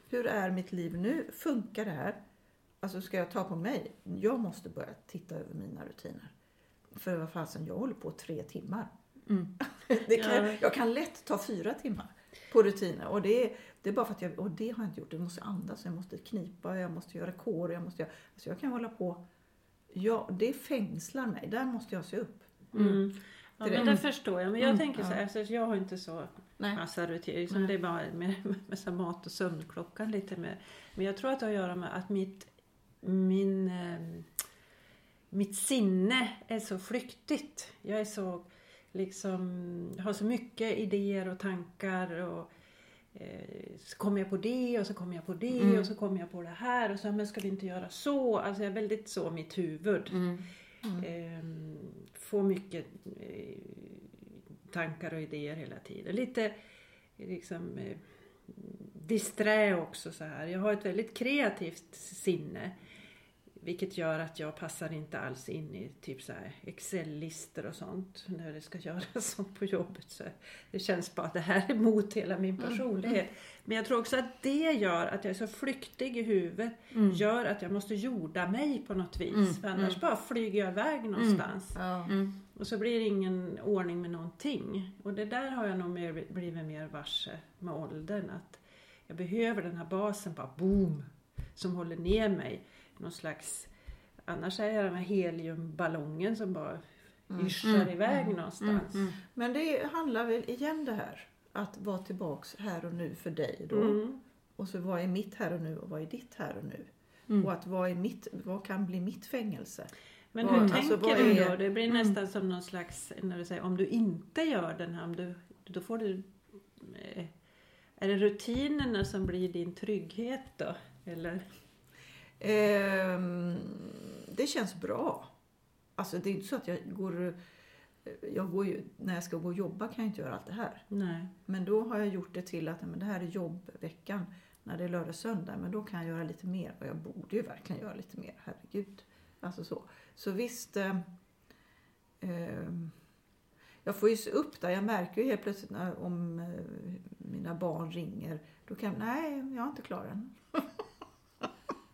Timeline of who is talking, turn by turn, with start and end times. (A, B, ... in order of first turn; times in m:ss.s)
0:00.1-0:02.2 A
0:02.8-0:06.3 A
0:07.0-0:08.9 A
0:09.6-0:19.2 A
0:10.1-0:10.6 B
0:19.9-0:22.6 A
0:22.7-0:32.5 B
0:23.6-0:24.0 A
0:24.9-0:25.2 A
0:33.0-0:34.3 B
0:35.3-0:42.5 B
0:43.1-0:50.3 B
0:45.5-0:45.9 C
0:50.1-0:50.5 C
0:51.0-0:56.5 B
0:57.2-1:02.7 B
1:03.5-1:21.8 B
1:16.9-1:17.2 C
1:19.3-1:20.0 C
1:21.2-1:21.4 C
1:21.7-1:22.1 A
1:22.1-1:22.4 C
1:22.5-1:33.7 B
1:34.2-1:39.1 B
1:37.3-1:37.9 A
1:37.6-1:37.9 C
1:38.6-1:39.2 C
1:39.3-1:44.0 A
1:43.7-1:44.2 B
1:44.6-1:51.5 A
1:50.3-1:57.3 B
1:50.5-1:52.1 C
1:58.0-2:01.5 B
2:02.4-2:05.3 A
2:06.0-2:07.4 A
2:08.0-2:10.8 A
2:10.9-2:11.3 B
2:11.4-2:21.1 A
2:22.2-2:23.0 A
2:23.8-2:30.8 A